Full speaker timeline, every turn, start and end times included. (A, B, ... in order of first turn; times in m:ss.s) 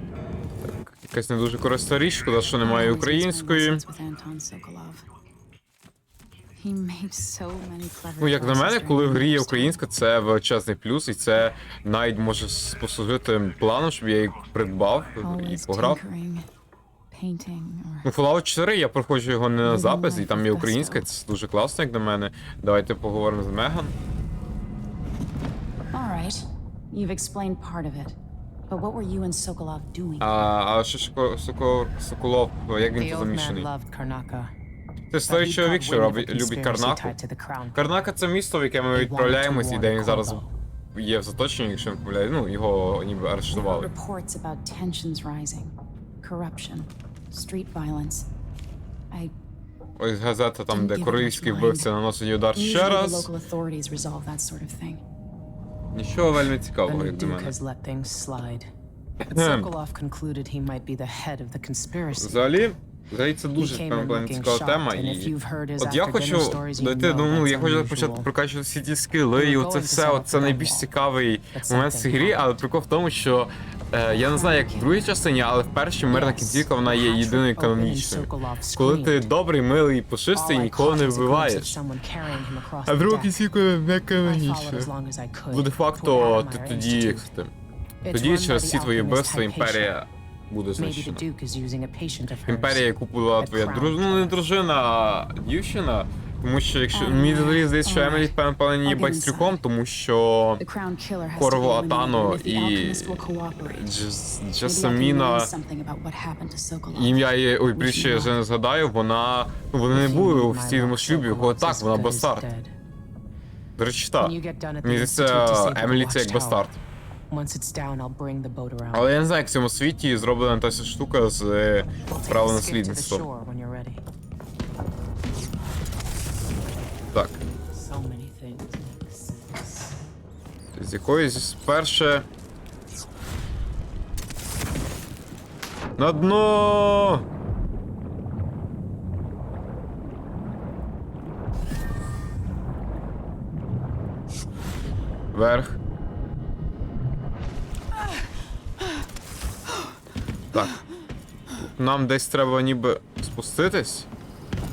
0:00.6-0:03.8 A
0:02.6-0:05.0 B
0:06.6-0:09.8 B
0:08.2-0:16.0 A
0:15.2-0:16.5 B
0:17.1-0:18.1 B
0:18.0-0:23.9 A
0:19.6-0:21.0 B
0:25.9-0:28.2 B
0:28.7-0:30.3 B
0:30.2-0:33.7 A
0:33.0-0:34.5 C
0:35.1-0:37.2 A
0:35.3-0:38.0 C
0:37.7-0:40.4 A
0:38.9-0:40.5 C
0:40.9-0:43.9 A
0:43.5-0:48.3 B
0:50.0-0:53.3 A
0:50.7-0:51.9 B
0:52.5-0:55.0 B
0:55.9-0:57.5 A
0:56.9-0:58.7 C
0:59.2-0:59.7 A
0:59.3-1:02.5 C
1:02.2-1:21.8 A
1:03.6-1:08.3 C
1:09.4-1:10.9 C
1:11.5-1:12.5 C
1:14.1-1:15.1 B
1:16.1-1:19.3 C
1:20.3-1:23.4 C
1:22.9-1:24.9 A
1:24.2-1:27.3 C
1:25.5-1:27.5 A
1:28.0-1:29.9 C
1:28.1-1:31.2 A
1:30.8-1:32.8 C
1:32.5-1:40.6 A
1:33.4-1:34.5 C
1:36.9-1:39.6 B
1:40.6-1:43.9 B
1:41.4-1:45.5 A
1:44.6-1:48.4 B
1:46.9-1:52.4 A
1:49.9-1:52.7 C
1:53.8-1:56.8 A
1:54.2-1:56.7 C
1:57.3-1:59.1 C
1:58.9-2:03.2 A
2:02.0-2:04.0 C
2:07.1-2:07.4 A
2:07.7-2:10.0 C
2:10.7-2:12.2 A
2:16.0-2:17.2 A
2:25.3-2:25.8 A
2:31.8-2:34.1 A